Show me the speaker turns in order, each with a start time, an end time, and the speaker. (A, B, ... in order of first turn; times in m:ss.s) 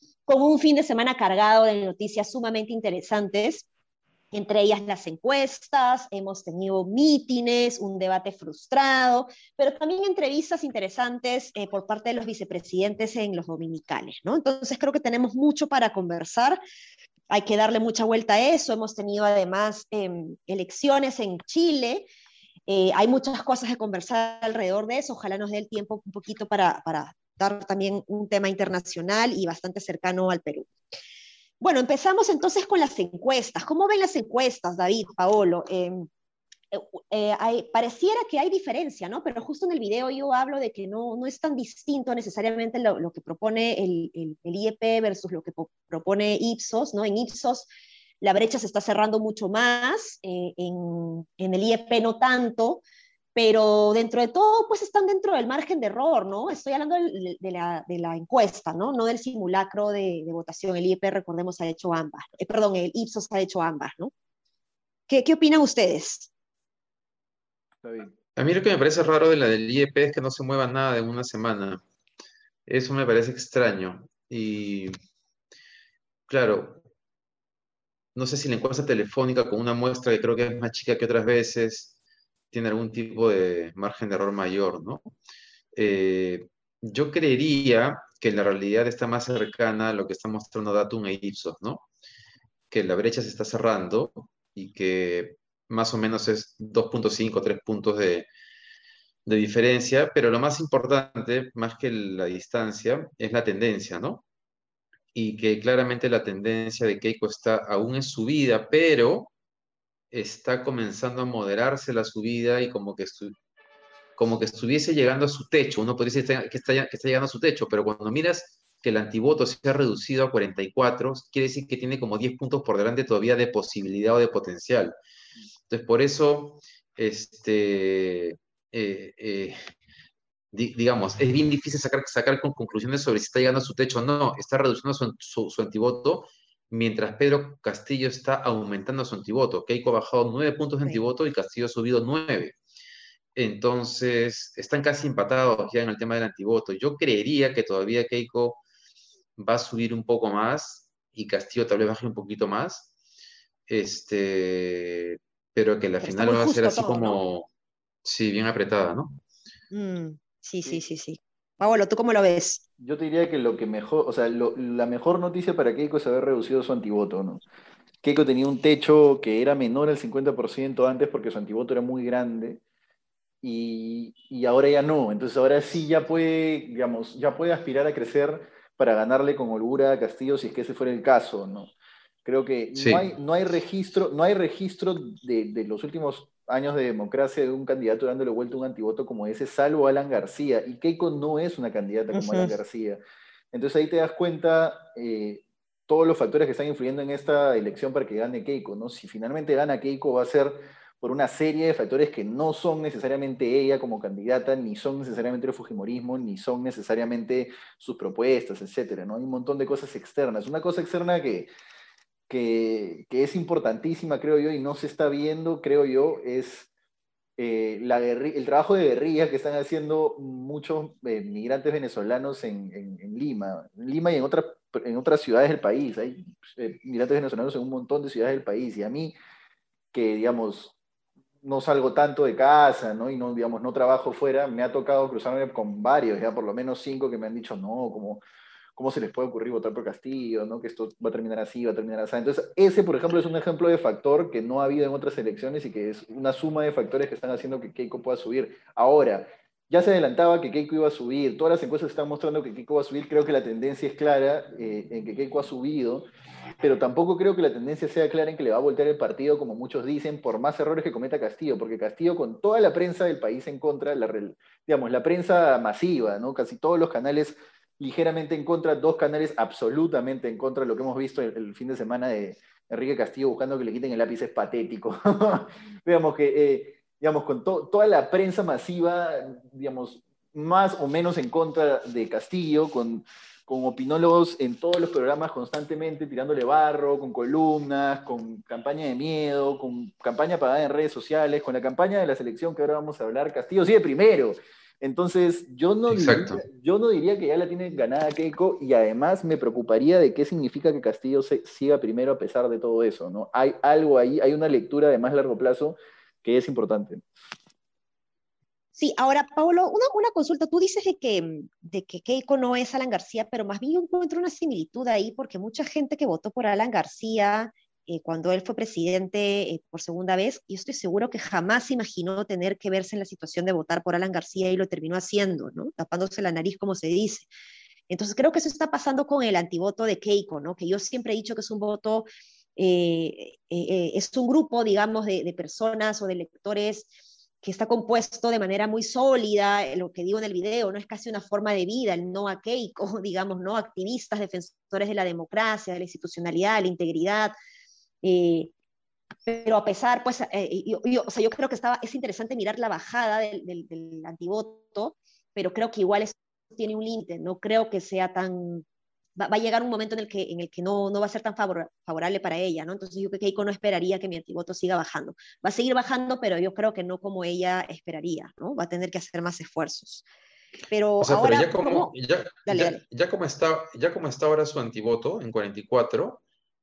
0:00.3-0:03.7 A
0:04.3-0:16.6 A
0:17.3-0:22.1 A
0:22.7-0:30.7 A
0:31.6-0:36.1 A
0:36.7-0:47.7 A
0:48.2-0:52.8 A
0:53.4-1:04.1 A
1:05.1-1:06.3 A
1:07.8-1:08.2 B
1:08.4-1:11.8 C
1:12.7-1:15.0 C
1:16.3-1:16.8 C
1:18.2-1:21.9 C
1:22.5-1:25.1 C
1:25.7-1:31.9 C
1:32.7-1:38.3 C
1:39.3-1:44.2 C
1:45.1-1:49.3 C
1:50.1-1:53.3 C
1:54.2-2:05.0 C
2:05.7-2:09.6 C
2:10.5-2:22.6 C
2:23.4-2:28.6 C
2:29.4-2:32.9 C
2:33.7-2:37.5 C
2:36.0-2:37.2 A
2:38.0-2:39.2 C
2:39.7-2:42.6 A
2:42.8-2:47.4 B
2:48.0-2:52.6 B
2:53.4-3:01.7 B
3:02.2-3:13.0 B
3:02.8-3:03.1 C
3:12.1-3:12.6 A
3:13.5-3:31.5 B
3:32.3-3:36.7 B
3:37.4-3:49.2 B
3:49.9-3:50.7 B
3:51.4-3:58.2 B
3:58.8-4:16.1 B
4:16.6-5:07.0 B
4:55.9-4:56.4 C
5:08.8-5:27.3 A
5:27.9-5:36.9 A
5:37.4-5:47.3 A
5:48.0-5:48.5 A
5:49.3-5:58.6 A
5:59.2-6:10.0 A
6:10.7-6:11.9 A
6:11.0-6:16.2 C
6:12.5-6:12.8 A